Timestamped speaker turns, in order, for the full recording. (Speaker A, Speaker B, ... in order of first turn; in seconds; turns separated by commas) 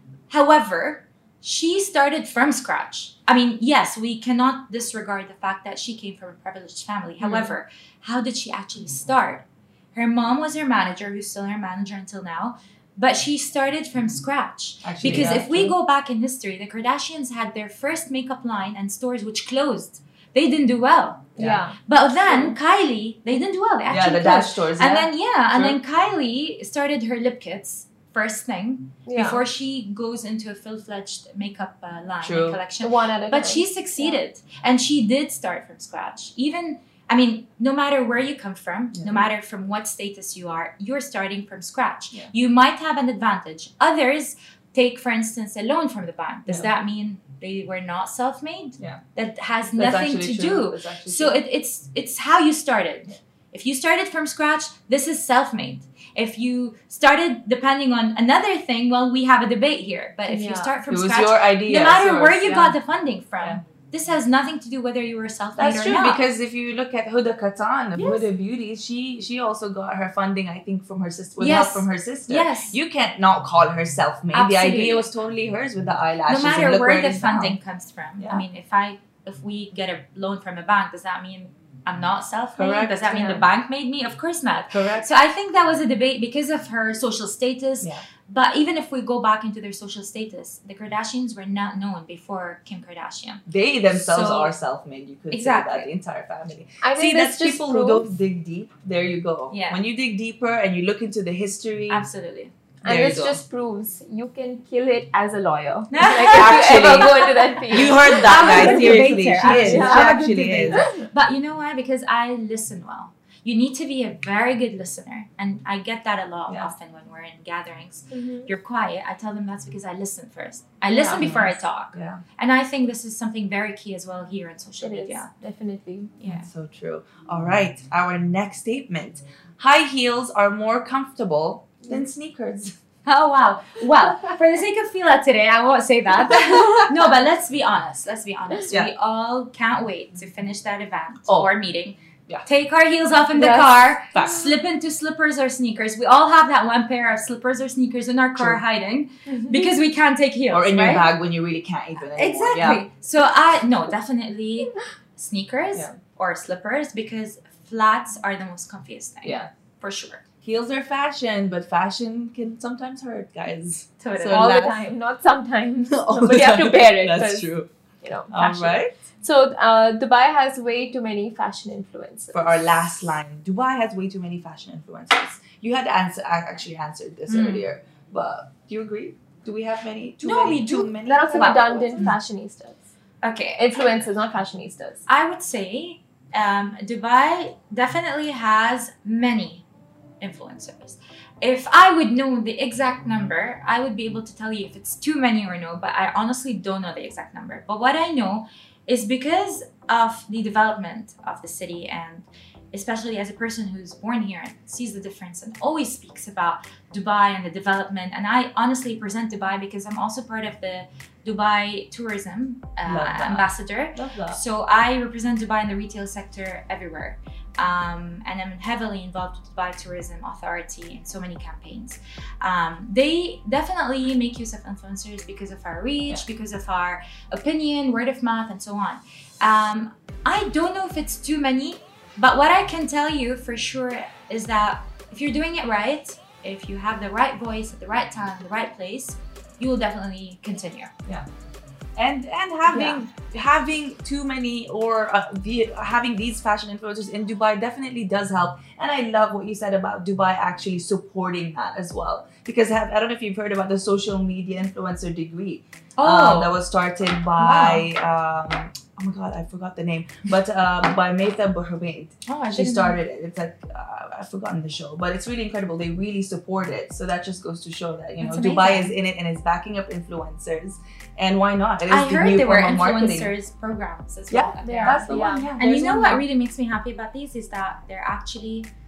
Speaker A: 0.3-66.2, Speaker B: 7.2-7.5, Speaker C: 14.8-15.8, Speaker C: 21.4-21.6, Speaker B: 21.4-21.8, Speaker B: 22.3-22.5, Speaker C: 23.9-25.8, Speaker B: 29.1-29.4, Speaker C: 32.2-32.6, Speaker B: 32.8-34.2, Speaker C: 38.9-39.3, Speaker C: 49.8-51.4, Speaker B: 60.3-60.8, Speaker C: 60.9-62.8, Speaker C: 65.6-77.6, Speaker A: 67.9-68.3, Speaker A: 71.4-72.8, Speaker A: 74.3-75.1, Speaker A: 76.3-94.5, Speaker C: 78.2-78.4, Speaker C: 82.5-83.5, Speaker C: 84.7-85.0, Speaker C: 93.5-102.0, Speaker A: 95.3-95.9, Speaker B: 96.8-98.1, Speaker A: 99.5-99.8, Speaker A: 101.9-102.5, Speaker C: 102.8-103.4, Speaker B: 102.8-110.1, Speaker A: 105.9-125.3, Speaker C: 106.1-110.9, Speaker B: 118.1-118.5, Speaker B: 120.9-121.5, Speaker C: 121.2-122.2, Speaker B: 124.8-126.1, Speaker A: 126.2-126.5, Speaker C: 126.2-132.8, Speaker A: 133.1-151.1, Speaker B: 143.4-143.6, Speaker C: 144.1-144.6, Speaker C: 148.3-148.6, Speaker C: 150.5-152.8, Speaker A: 152.1-160.2, Speaker C: 159.2-159.5, Speaker C: 160.4-164.9, Speaker A: 164.0-164.4, Speaker B: 164.3-172.5, Speaker C: 165.9-167.7, Speaker C: 168.3-168.9, Speaker C: 172.3-182.2, Speaker A: 177.3-177.6, Speaker A: 180.2-182.1, Speaker B: 181.0-182.9, Speaker A: 183.2-184.0, Speaker B: 183.6-185.0, Speaker A: 185.1-189.6, Speaker A: 190.2-240.9, Speaker C: 212.8-214.4, Speaker C: 241.9-273.3, Speaker B: 242.7-243.0, Speaker A: 256.0-256.6, Speaker A: 257.4-257.9, Speaker A: 262.2-263.0, Speaker A: 268.2-268.9, Speaker A: 271.9-278.7, Speaker C: 274.3-276.2, Speaker B: 274.6-275.5